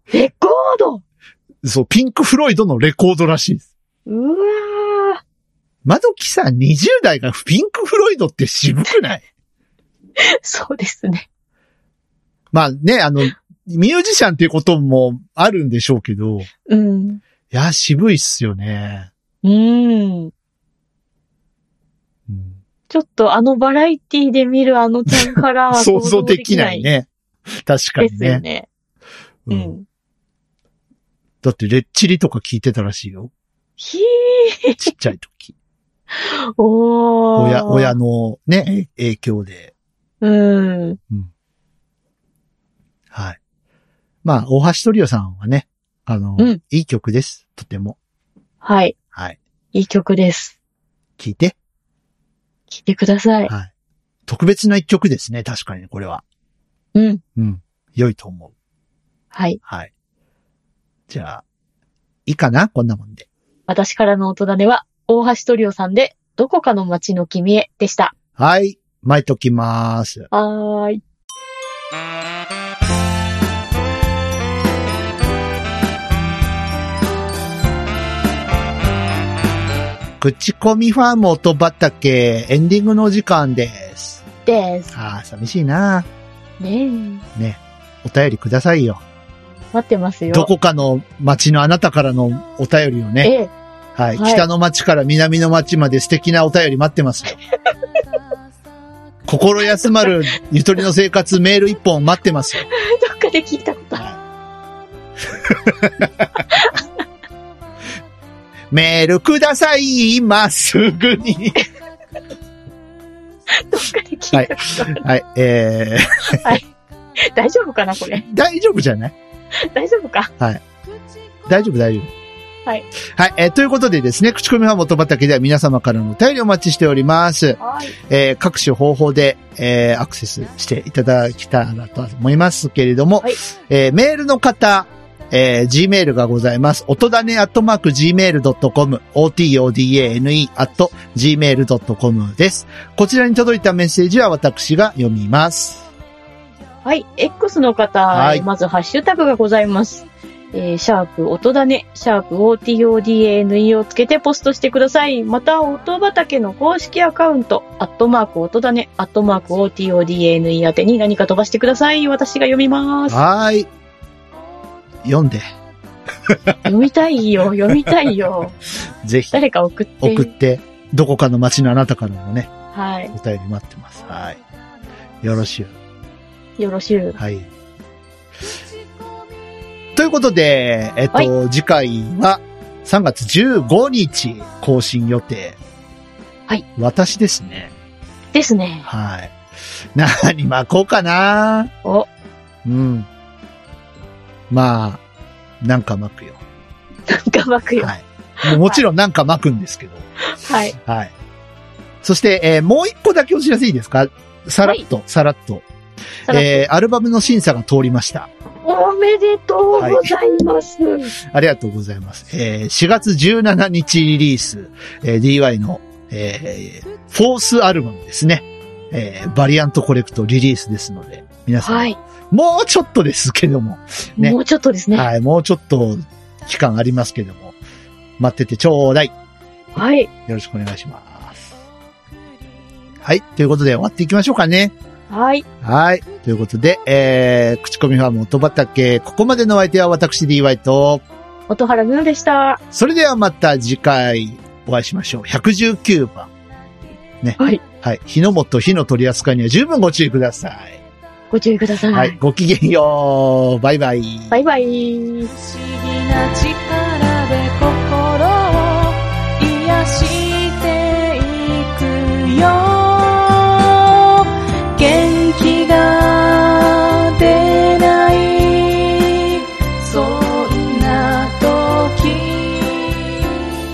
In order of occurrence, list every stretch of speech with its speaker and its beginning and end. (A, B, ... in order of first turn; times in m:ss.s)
0:00.1-0:01.0 A
0:01.6-0:03.7 B
0:04.1-0:05.2 A
0:05.8-0:09.2 B
0:10.2-0:11.2 A
0:12.5-0:16.5 B
0:16.7-0:17.2 A
0:17.5-0:19.1 B
0:19.4-0:20.3 A
0:22.3-0:22.6 B
0:22.9-0:26.9 A
0:25.7-0:27.1 B
0:27.6-0:28.4 B
0:28.0-0:28.7 A
0:29.5-0:29.7 B
0:29.5-0:29.8 A
0:31.4-0:33.3 B
0:33.8-0:34.8 A
0:34.8-0:35.6 B
0:36.2-0:38.0 A
0:37.4-0:39.7 B
0:40.2-0:41.0 A
0:43.1-0:43.4 B
0:44.2-0:48.0 B
0:48.6-0:49.0 A
0:49.7-0:50.6 A
0:51.2-0:51.6 B
0:52.7-0:53.5 A
0:54.3-0:56.2 B
0:57.0-0:57.2 A
0:57.4-0:58.5 B
0:59.3-0:59.6 A
1:01.1-1:01.4 B
1:02.3-1:03.3 B
1:03.7-1:08.1 A
1:08.4-1:10.3 B
1:10.3-1:11.0 A
1:20.2-1:24.2 B
1:24.5-1:24.9 A
1:24.9-1:26.1 B
1:26.6-1:27.2 A
1:27.4-1:29.0 B
1:29.7-1:30.5 A
1:30.3-1:33.3 B
1:33.2-1:33.5 A
1:34.0-1:37.4 B
1:34.2-1:34.4 A
1:39.3-1:42.6 B
1:39.7-1:40.1 A
1:42.7-1:44.0 A
1:45.5-1:46.3 B
1:46.5-1:46.8 A
1:48.7-1:51.6 B
1:53.5-1:55.0 A
1:54.3-1:56.6 B
1:57.3-1:58.2 A
1:58.2-1:59.2 B
1:59.7-2:00.3 A
2:01.5-2:02.1 B
2:03.2-2:25.9 B
2:07.6-2:08.0 A
2:26.8-2:43.2 A
2:28.1-2:28.5 B
2:43.1-2:43.7 B
2:45.0-2:45.4 B
2:46.3-2:46.6 B
2:46.6-2:48.6 A
2:49.0-2:49.4 B
2:49.3-2:50.3 A
2:50.0-2:52.5 B
2:52.7-2:53.1 A
2:53.1-2:54.4 B
2:55.2-2:55.8 B
2:56.6-2:57.2 A
2:57.2-2:57.5 B
3:00.0-3:05.6 B
3:06.8-3:07.7 B
3:08.3-3:08.9 A
3:08.9-3:09.4 B
3:10.0-3:11.7 B
3:12.6-3:13.1 B
3:14.5-3:15.0 B
3:15.6-3:16.4 B
3:17.1-3:18.8 A
3:17.8-3:20.0 B
3:20.3-3:20.8 A
3:20.8-3:21.1 B
3:22.0-3:25.7 B
3:26.3-3:26.7 A
3:26.3-3:28.3 B
3:28.6-3:31.1 A
3:29.8-3:30.2 B
3:31.3-3:44.4 B
3:41.6-3:42.0 A
3:44.2-3:45.1 A
3:44.9-3:47.6 B
3:48.2-3:49.1 B
3:49.8-3:50.1 A
3:50.3-3:51.5 B
3:53.0-3:54.8 B
3:55.1-3:55.4 A
3:55.6-4:01.0 B
4:01.5-4:02.6 A
4:02.7-4:06.3 B
4:07.2-4:10.8 B
4:11.3-4:12.2 A
4:11.9-4:14.3 B
4:14.3-4:15.3 A
4:15.7-4:22.7 C
4:22.4-4:23.3 A
4:24.8-4:26.4 C
4:27.1-4:28.5 C
4:29.6-4:32.7 C